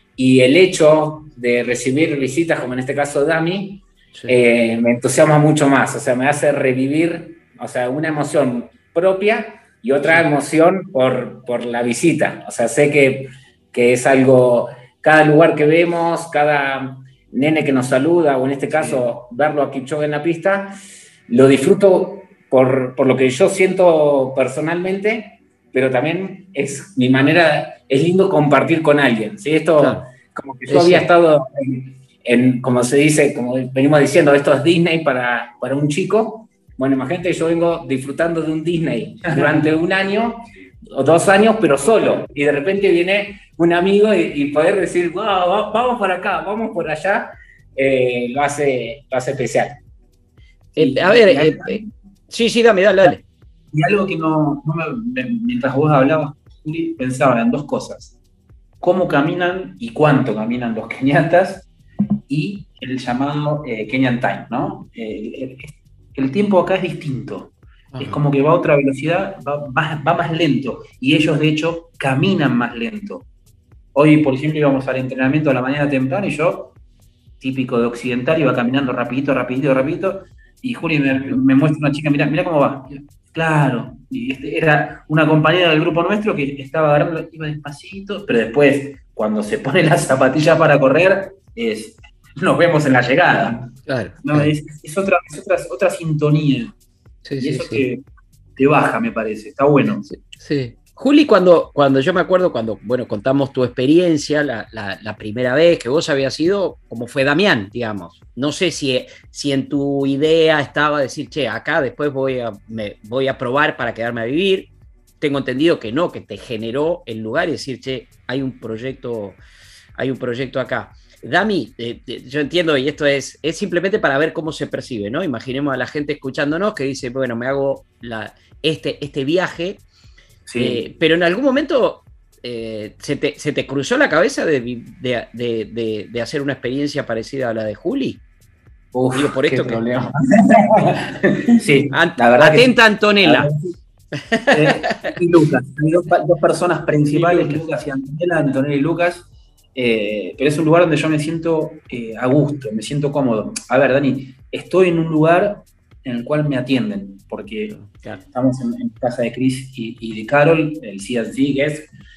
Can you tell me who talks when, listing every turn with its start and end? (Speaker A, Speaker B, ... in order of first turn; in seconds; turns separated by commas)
Speaker A: 0.2-49.8, Speaker B: 29.8-30.1, Speaker B: 30.7-31.1, Speaker C: 39.3-39.6, Speaker B: 50.8-53.2, Speaker C: 50.8-51.9, Speaker C: 53.7-58.1, Speaker C: 58.8-61.7, Speaker C: 62.3-73.2, Speaker B: 67.9-68.2, Speaker C: 73.9-76.7, Speaker C: 77.4-93.7, Speaker B: 81.1-81.4, Speaker B: 93.9-94.5, Speaker C: 94.2-96.7, Speaker B: 97.2-97.8, Speaker C: 97.4-98.0, Speaker C: 98.6-100.1, Speaker B: 100.1-114.7, Speaker B: 115.2-119.4, Speaker B: 120.0-129.8, Speaker C: 130.5-130.8, Speaker B: 130.6-138.2, Speaker C: 138.9-143.8, Speaker B: 139.1-139.8, Speaker B: 141.9-143.5, Speaker B: 144.2-145.1, Speaker C: 144.5-161.9, Speaker B: 147.1-147.6, Speaker B: 157.7-158.2